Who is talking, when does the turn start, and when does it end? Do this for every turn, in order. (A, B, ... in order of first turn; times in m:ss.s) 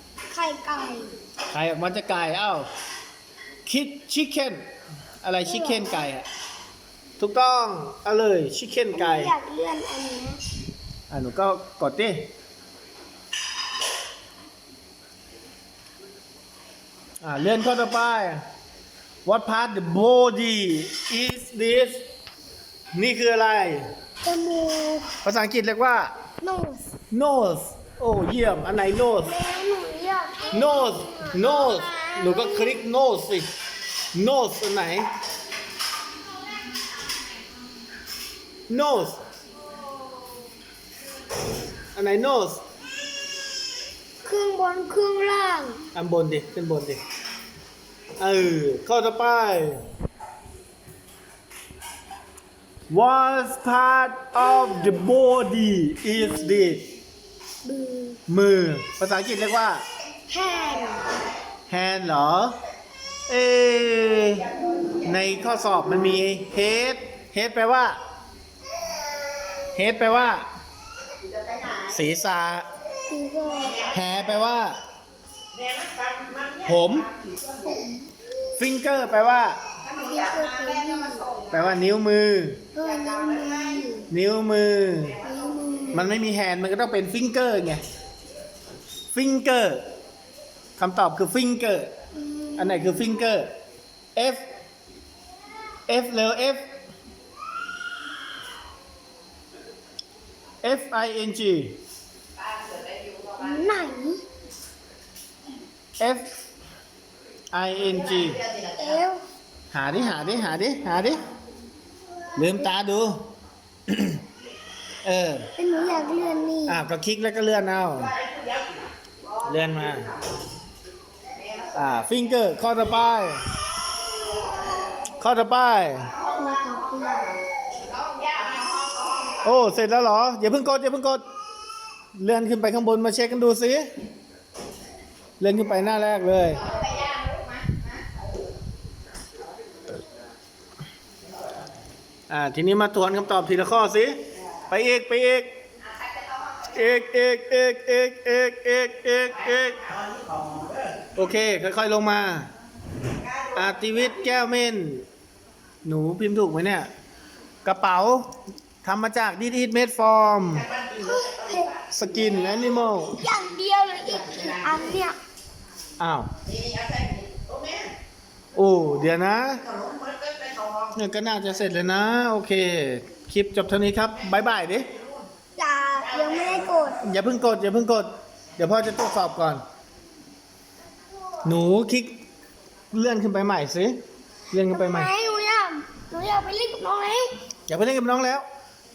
0:00.3-0:01.1 A
0:01.5-0:02.7 B
0:03.7-0:04.6 B
0:05.2-0:06.3 B
0:05.4-0:06.0 A
0:07.2-0:09.3 B
0:08.9-0:10.4 A
0:11.1-0:12.3 B
0:17.2-0:18.4 B
0:19.3-0:22.0 B
0:22.9-0:23.8 B
0:24.2-0:25.1 A
0:25.2-0:26.1 B
0:26.4-0:26.9 A
0:27.1-0:29.4 B
0:29.2-0:32.8 A
0:30.5-0:33.5 B
0:34.1-0:35.1 B
0:38.7-0:39.2 B
0:42.0-0:42.6 B
0:44.2-0:45.8 A
0:46.0-0:47.0 B
0:48.2-0:49.8 B
0:52.9-0:56.8 B
0:54.4-0:55.0 A
0:56.2-0:56.8 A
0:57.6-0:58.2 A
0:58.3-0:59.8 B
1:00.3-1:01.1 A
1:01.7-1:02.6 B
1:03.3-1:04.5 B
1:05.0-1:08.0 B
1:09.8-1:10.4 B
1:11.9-1:12.7 B
1:13.1-1:13.9 A
1:13.9-1:14.8 B
1:16.6-1:17.1 B
1:17.6-1:18.1 A
1:18.6-1:19.6 B
1:19.9-1:21.3 A
1:21.5-1:22.6 B
1:22.7-1:24.1 A
1:24.1-1:25.2 B
1:25.2-1:26.1 A
1:25.9-1:27.8 B
1:29.1-1:29.8 B
1:30.8-1:31.9 B
1:32.1-1:33.1 A
1:32.6-1:33.5 B
1:34.2-1:34.4 B
1:35.9-1:36.6 B
1:40.6-1:41.8 B
1:43.4-1:44.2 A
1:46.0-1:46.3 B
1:47.5-1:48.4 B
1:48.8-1:49.2 A
1:49.7-1:51.2 B
1:52.4-1:53.3 B
1:53.9-1:54.2 B
1:55.0-1:55.5 B
1:55.6-1:56.8 A
1:56.7-1:58.1 B
1:59.4-2:00.1 B
2:01.7-2:03.4 B
2:05.2-2:06.1 B
2:06.2-2:07.3 A
2:09.4-2:11.2 B
2:12.2-2:13.9 B
2:15.4-2:16.6 B
2:22.3-2:24.2 B
2:24.7-2:25.5 B
2:26.7-2:29.9 B
2:31.2-2:32.5 B
2:33.6-2:35.0 B
2:35.8-2:36.9 B
2:37.6-2:38.2 B
2:38.8-2:40.7 B
2:41.0-2:41.7 A
2:41.9-2:43.2 B
2:42.6-2:45.2 A
2:46.0-2:46.3 B
2:48.6-2:49.6 B
2:51.0-2:54.9 B
2:55.6-2:57.0 A
2:57.0-2:59.6 B
3:01.4-3:02.1 B
3:02.9-3:04.0 B
3:04.5-3:05.1 B
3:04.7-3:07.3 A
3:07.7-3:08.4 B